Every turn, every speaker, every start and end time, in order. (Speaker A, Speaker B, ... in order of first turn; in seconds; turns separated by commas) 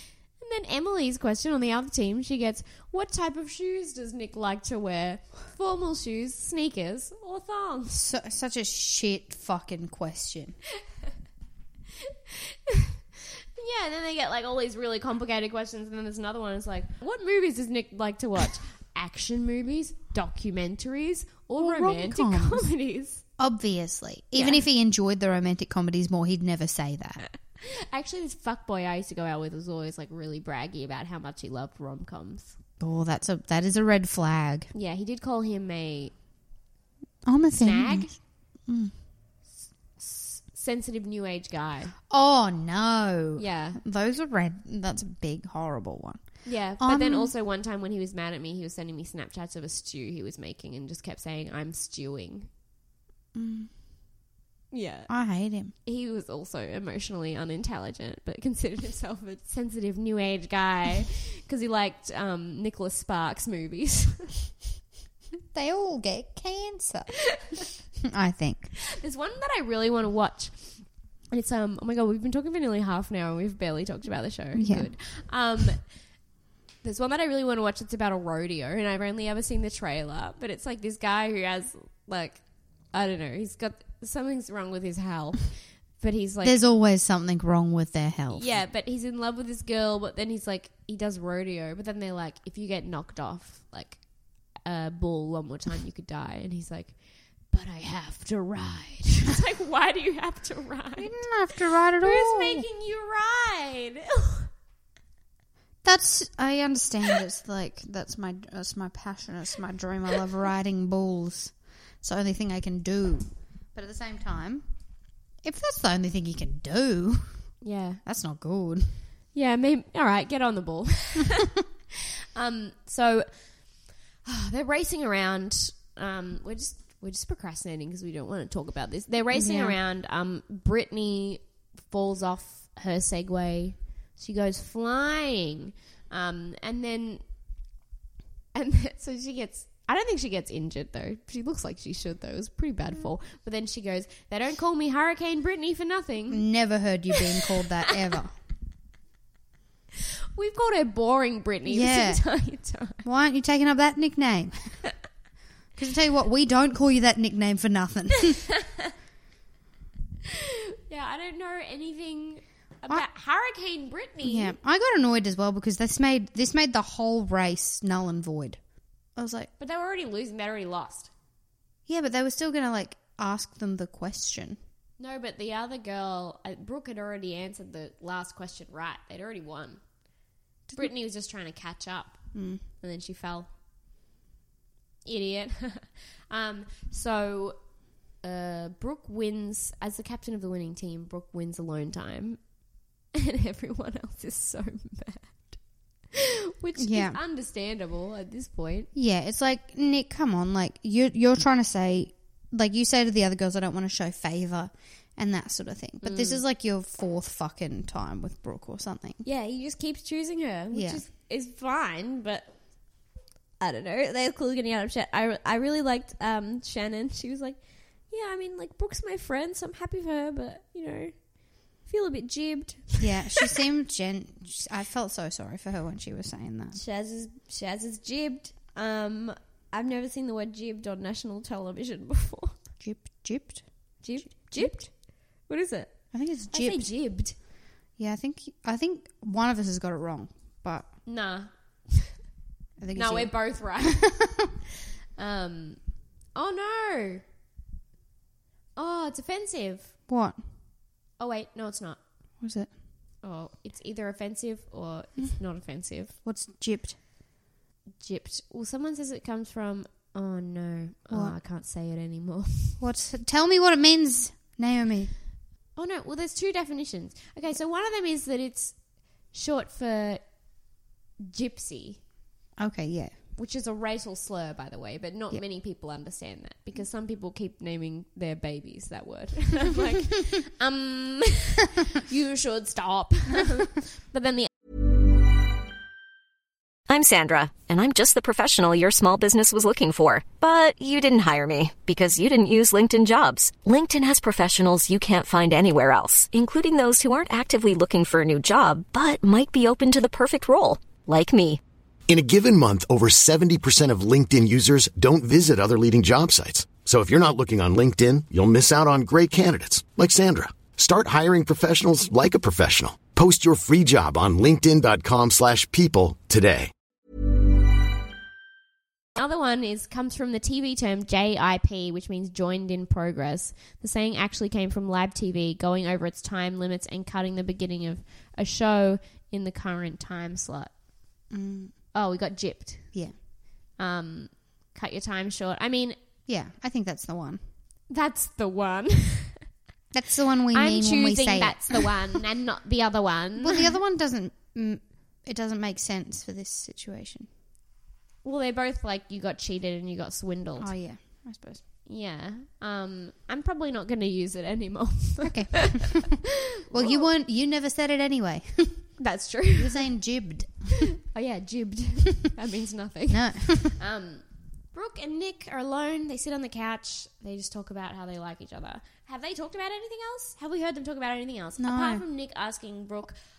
Speaker A: 0.4-8.0, Speaker B: 7.9-10.6, Speaker A: 12.3-12.9, Speaker A: 13.6-23.2, Speaker B: 21.6-22.7, Speaker B: 23.4-27.2, Speaker A: 24.3-24.6, Speaker A: 27.6-32.5, Speaker B: 32.8-34.7, Speaker A: 34.7-36.1, Speaker B: 37.2-38.1, Speaker A: 37.6-38.1, Speaker B: 38.7-38.9, Speaker A: 40.0-41.9, Speaker B: 42.1-46.2, Speaker A: 43.4-43.8, Speaker A: 46.4-52.5, Speaker B: 46.8-47.3, Speaker B: 53.3-53.7, Speaker A: 54.7-55.1, Speaker B: 55.1-55.7, Speaker A: 55.8-64.4, Speaker B: 65.5-67.1, Speaker A: 67.3-67.6, Speaker B: 68.0-68.7, Speaker A: 69.0-75.8, Speaker B: 74.5-74.9, Speaker A: 76.8-86.6, Speaker B: 86.4-88.6, Speaker A: 88.3-97.0, Speaker A: 97.5-101.3, Speaker B: 101.0-102.7, Speaker A: 102.0-104.5, Speaker B: 105.8-114.6, Speaker B: 115.4-117.4, Speaker A: 117.6-118.0, Speaker B: 118.0-119.0, Speaker A: 119.3-121.5, Speaker A: 122.3-123.3, Speaker A: 124.2-137.2, Speaker B: 129.3-129.8, Speaker A: 138.5-146.4, Speaker B: 146.3-148.3, Speaker A: 147.1-147.9, Speaker A: 150.3-153.0, Speaker B: 151.7-152.2, Speaker B: 153.0-154.8, Speaker B: 155.8-158.4, Speaker A: 158.5-158.9, Speaker A: 160.2-164.6, Speaker B: 164.2-168.6, Speaker B: 169.2-169.5, Speaker A: 169.6-171.1, Speaker B: 171.9-174.6, Speaker A: 175.0-179.8, Speaker A: 180.8-182.2, Speaker B: 182.3-182.6, Speaker A: 182.8-183.5, Speaker A: 185.0-187.6, Speaker A: 188.2-192.4, Speaker A: 193.1-195.6, Speaker A: 196.1-198.9, Speaker B: 196.8-197.2, Speaker B: 198.9-209.2, Speaker A: 206.0-206.4, Speaker A: 209.2-212.5, Speaker B: 210.7-211.0, Speaker A: 213.6-223.5, Speaker B: 223.0-226.8, Speaker A: 226.7-232.5, Speaker B: 232.8-233.6, Speaker A: 234.0-235.9, Speaker B: 234.2-234.8, Speaker B: 236.1-236.9, Speaker A: 236.5-237.3, Speaker B: 238.0-240.9, Speaker A: 241.1-242.2, Speaker B: 242.8-243.3, Speaker A: 242.9-244.1, Speaker B: 243.9-244.3, Speaker A: 245.2-245.8, Speaker A: 246.3-247.2, Speaker A: 248.8-249.9, Speaker B: 250.1-250.4, Speaker A: 251.2-252.0, Speaker B: 252.4-252.7, Speaker A: 253.2-256.1, Speaker B: 256.2-257.0, Speaker A: 258.0-262.8, Speaker B: 262.8-265.1, Speaker A: 265.8-268.8, Speaker A: 269.3-270.2, Speaker A: 271.2-272.0, Speaker B: 272.6-273.1, Speaker A: 273.4-284.5, Speaker C: 286.9-301.6, Speaker D: 302.1-316.7, Speaker A: 319.1-330.7, Speaker B: 331.3-331.7, Speaker A: 331.9-332.9, Speaker A: 333.8-335.9, Speaker B: 336.3-337.4, Speaker A: 337.9-339.4, Speaker B: 339.9-341.9, Speaker A: 340.5-343.7, Speaker B: 343.4-347.3, Speaker A: 348.2-350.7, Speaker B: 350.6-351.6, Speaker A: 351.9-357.1, Speaker B: 355.2-356.1, Speaker B: 356.7-358.9, Speaker A: 359.0-359.9, Speaker B: 359.6-360.8, Speaker A: 361.0-373.1, Speaker B: 363.1-363.8, Speaker B: 371.6-372.0